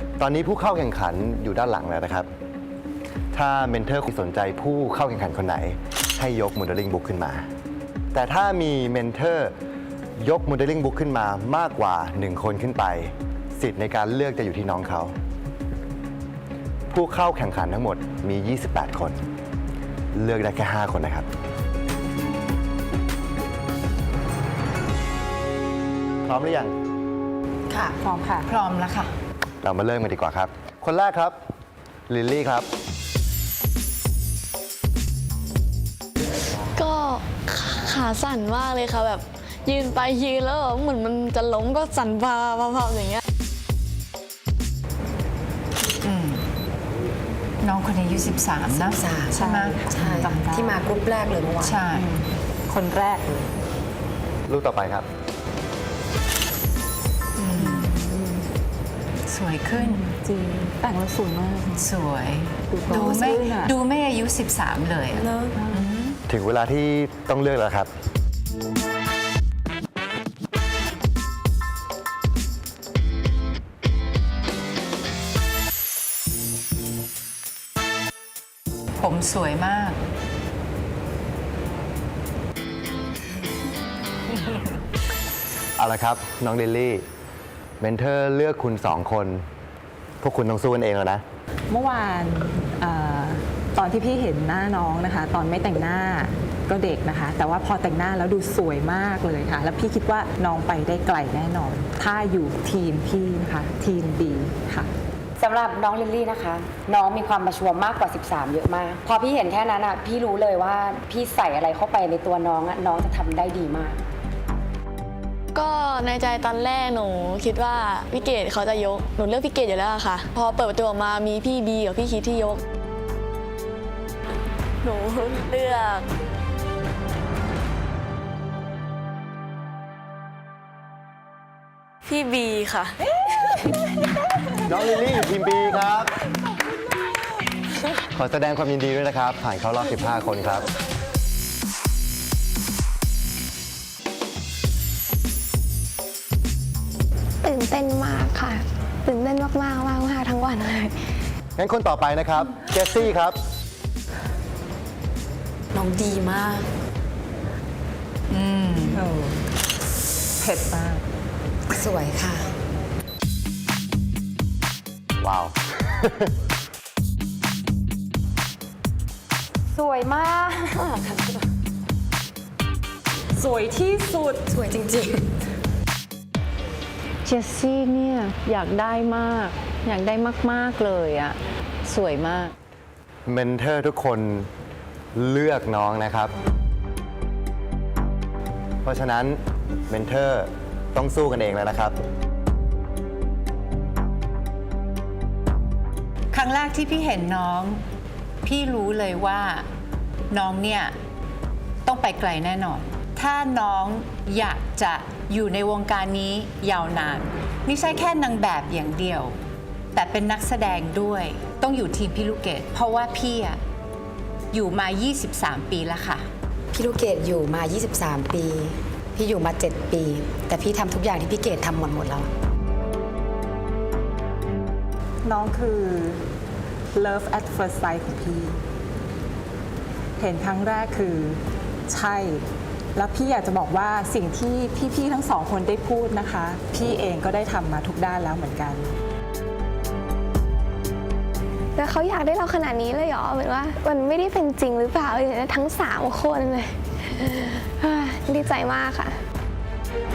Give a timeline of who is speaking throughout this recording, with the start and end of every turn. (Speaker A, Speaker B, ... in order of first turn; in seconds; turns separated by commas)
Speaker A: 0.2-2.3, Speaker A: 3.3-7.5, Speaker A: 8.1-9.5, Speaker A: 10.2-15.2, Speaker A: 16.9-19.2, Speaker A: 20.1-21.3, Speaker A: 26.2-26.7, Speaker B: 27.7-29.1, Speaker A: 29.6-31.4, Speaker A: 32.1-32.7, Speaker C: 36.8-43.2, Speaker B: 46.0-46.5, Speaker B: 47.6-50.5, Speaker D: 48.7-51.8, Speaker E: 49.4-50.7, Speaker B: 51.6-52.1, Speaker E: 52.7-53.5, Speaker A: 54.5-55.1, Speaker B: 57.4-58.0, Speaker E: 57.6-58.4, Speaker B: 59.3-60.1, Speaker E: 59.8-61.9, Speaker B: 61.8-66.2, Speaker E: 62.7-63.8, Speaker E: 65.3-65.8, Speaker A: 66.3-67.9, Speaker B: 79.0-80.0, Speaker A: 85.8-87.0, Speaker A: 87.8-89.5, Speaker A: 90.2-91.2, Speaker E: 91.7-104.9, Speaker D: 105.4-114.0, Speaker C: 115.5-122.6, Speaker C: 124.8-126.1, Speaker C: 132.1-133.0, Speaker A: 134.7-136.1, Speaker A: 138.1-140.7, Speaker F: 147.4-150.9, Speaker A: 151.6-153.4, Speaker D: 155.7-156.7, Speaker B: 158.3-159.0, Speaker E: 158.9-159.4, Speaker E: 160.4-161.0, Speaker D: 161.7-162.5, Speaker A: 165.2-166.3, Speaker D: 169.8-171.4, Speaker E: 173.3-174.4, Speaker D: 174.5-175.3, Speaker G: 177.2-182.5, Speaker A: 183.3-184.5, Speaker A: 185.2-186.3, Speaker A: 188.8-192.0, Speaker B: 196.3-197.8, Speaker B: 198.4-199.7, Speaker B: 200.3-200.9, Speaker B: 201.8-209.4, Speaker B: 209.9-213.6, Speaker B: 214.5-216.3, Speaker D: 216.7-222.3, Speaker E: 225.2-226.2, Speaker E: 226.9-228.6, Speaker E: 230.2-238.9, Speaker F: 241.8-249.2